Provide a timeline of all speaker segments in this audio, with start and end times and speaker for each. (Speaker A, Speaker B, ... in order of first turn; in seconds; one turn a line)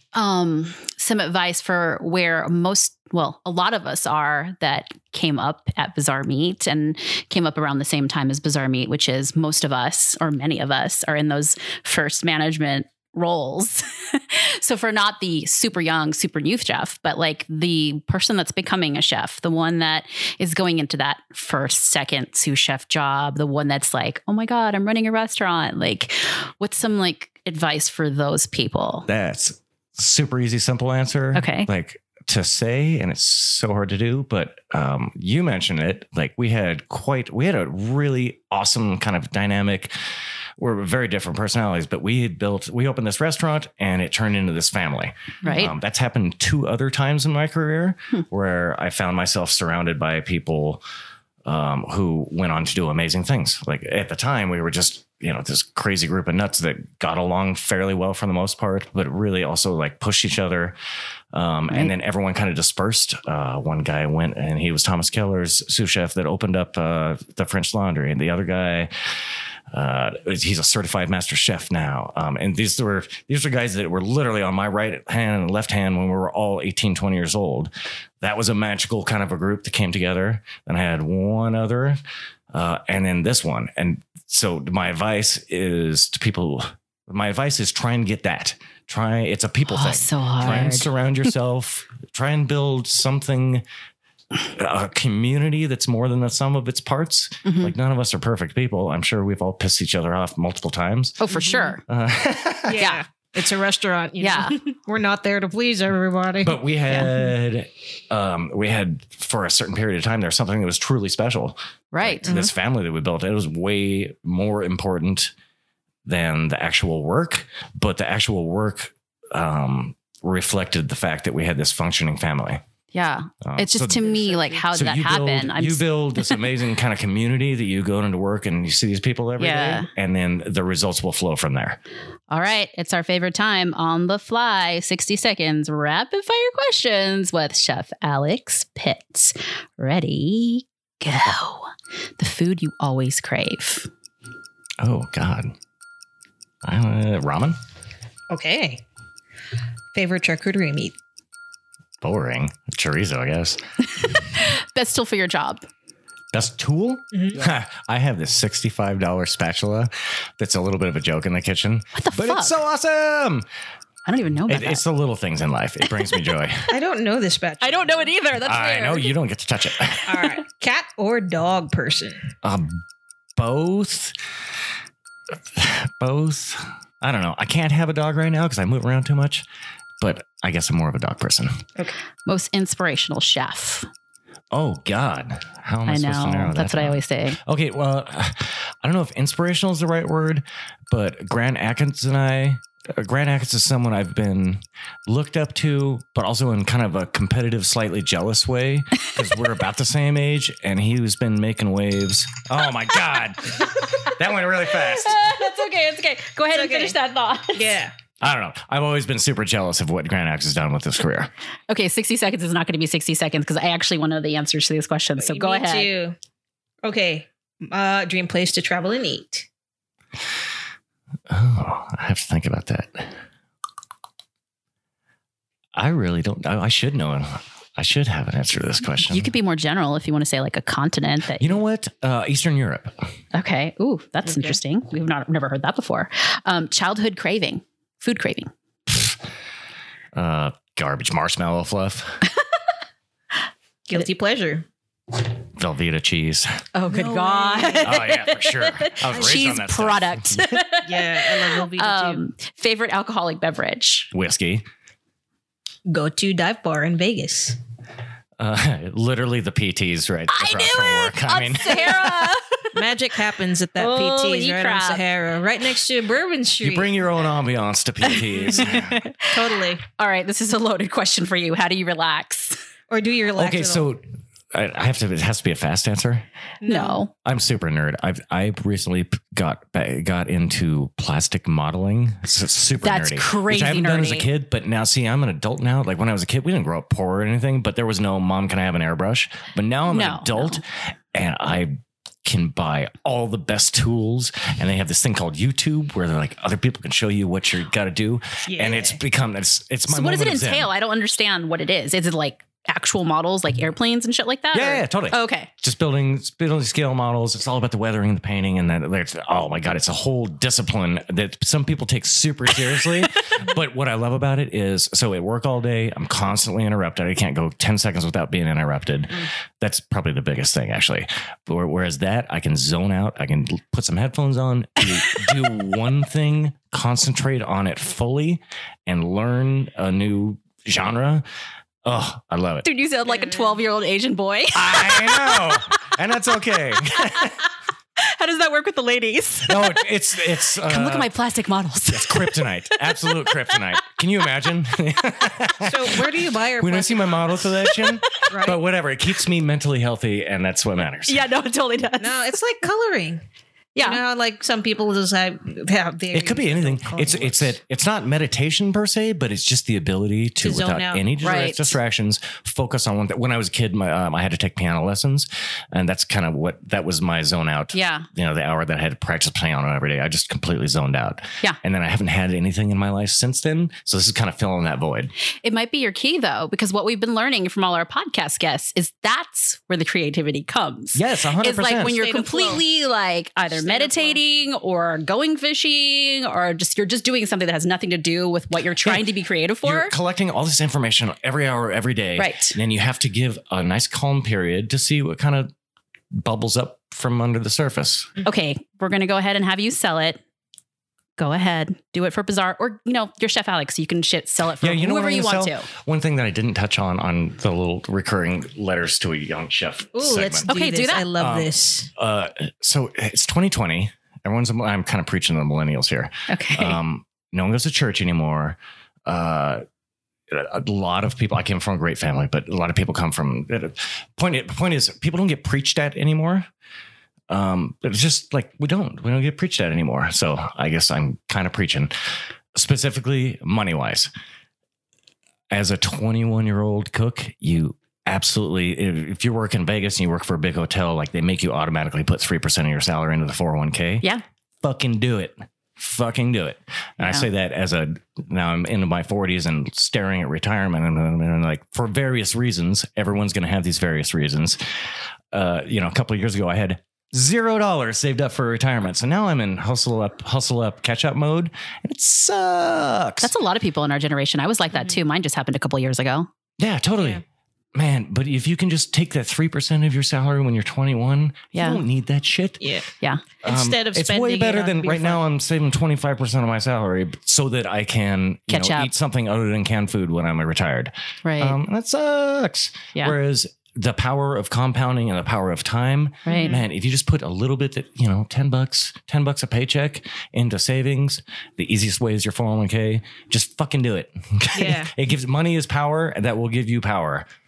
Speaker A: 0.1-29.1
Speaker B: 29.1-39.9
Speaker A: 31.3-31.7
Speaker B: 40.6-50.8
Speaker A: 45.4-45.7
Speaker B: 51.5-60.8
Speaker B: 61.3-68.9
Speaker B: 69.7-82.0
Speaker B: 82.5-93.6
Speaker A: 89.7-90.9
Speaker B: 94.4-101.2
Speaker A: 97.5-97.7
Speaker A: 101.2-101.8
Speaker C: 101.3-101.8
Speaker B: 101.9-102.9
Speaker C: 102.7-106.6
Speaker A: 102.8-103.0
Speaker A: 104.2-104.6
Speaker B: 106.4-115.3
Speaker A: 106.9-107.3
Speaker A: 111.9-112.3
Speaker C: 112.2-112.5
Speaker B: 116.0-122.6
Speaker A: 122.9-126.4
Speaker B: 123.4-124.0
Speaker C: 124.0-124.6
Speaker B: 124.7-131.8
Speaker A: 129.4-129.9
Speaker A: 132.3-143.9
Speaker B: 144.8-145.6
Speaker B: 146.6-147.6
Speaker C: 148.3-148.8
Speaker C: 149.9-150.9
Speaker B: 152.0-153.6
Speaker A: 153.9-155.7
Speaker B: 156.3-163.5
Speaker C: 157.1-157.4
Speaker A: 161.9-162.6
Speaker A: 164.1-164.8
Speaker B: 164.5-166.8
Speaker C: 166.7-168.1
Speaker A: 167.6-169.1
Speaker B: 168.4-170.3
Speaker C: 170.1-172.3
Speaker B: 172.4-172.8
Speaker B: 173.4-174.2
Speaker B: 175.5-179.4
Speaker B: 180.0-181.7
Speaker A: 182.3-183.9
Speaker B: 184.5-205.2
Speaker A: 185.9-187.4
Speaker A: 204.9-207.8
Speaker C: 206.5-207.0
Speaker C: 207.5-207.9
Speaker B: 208.2-211.3
Speaker A: 211.7-215.9
Speaker C: 215.2-216.2
Speaker C: 216.8-219.5
Speaker B: 221.3-223.2
Speaker B: 225.7-229.3
Speaker A: 229.0-231.6
Speaker B: 231.4-233.0
Speaker A: 233.3-238.5
Speaker B: 238.9-239.2
Speaker B: 240.2-242.2
Speaker C: 243.9-244.7
Speaker B: 245.6-246.6
Speaker A: 246.7-254.1
Speaker C: 246.9-248.0
Speaker B: 247.8-250.6
Speaker C: 250.8-252.2
Speaker B: 254.1-254.7
Speaker C: 255.9-257.6
Speaker B: 258.4-262.1
Speaker A: 260.3-262.8
Speaker C: 262.7-266.9
Speaker A: 263.8-265.0
Speaker B: 266.6-269.0
Speaker A: 268.1-272.6
Speaker C: 268.5-269.8
Speaker C: 272.9-273.9
Speaker B: 273.4-276.3
Speaker C: 276.6-277.0
Speaker A: 276.6-277.1
Speaker B: 277.2-300.7
Speaker A: 282.8-284.3
Speaker A: 289.9-290.6
Speaker C: 298.5-299.0
Speaker A: 299.9-305.5
Speaker B: 304.5-331.2
Speaker B: 331.8-332.7
Speaker A: 332.6-335.9
Speaker C: 333.2-333.5
Speaker B: 334.5-337.4
Speaker A: 336.7-339.9
Speaker B: 339.5-341.1
Speaker A: 340.6-343.6
Speaker B: 341.9-351.3
Speaker C: 345.6-347.4
Speaker A: 347.7-348.3
Speaker C: 348.2-348.6
Speaker A: 351.1-352.2
Speaker C: 352.0-353.2
Speaker A: 353.8-354.0
Speaker C: 353.8-357.5
Speaker B: 356.1-375.1
Speaker C: 360.4-361.0
Speaker A: 361.2-361.8
Speaker A: 367.7-368.1
Speaker A: 375.4-389.9
Speaker B: 380.9-382.0
Speaker C: 381.9-382.6
Speaker C: 383.5-384.2
Speaker B: 388.8-389.1
Speaker B: 389.6-395.5
Speaker A: 392.2-392.6
Speaker B: 396.1-398.1
Speaker A: 398.2-400.2
Speaker A: 401.2-405.7
Speaker B: 404.6-410.5
Speaker C: 409.9-411.9
Speaker A: 410.5-411.1
Speaker B: 411.2-419.6
Speaker A: 416.3-416.8
Speaker B: 420.3-426.5
Speaker B: 427.3-434.1
Speaker B: 435.5-444.1
Speaker B: 444.6-463.3
Speaker A: 447.0-447.3
Speaker A: 463.2-466.3
Speaker B: 466.6-467.2
Speaker B: 467.7-472.8
Speaker A: 471.5-471.8
Speaker C: 472.6-472.9
Speaker C: 473.4-475.2
Speaker B: 473.4-497.3
Speaker A: 478.5-478.9
Speaker A: 481.2-481.6
Speaker A: 486.3-486.6
Speaker C: 486.3-486.6
Speaker C: 494.6-494.9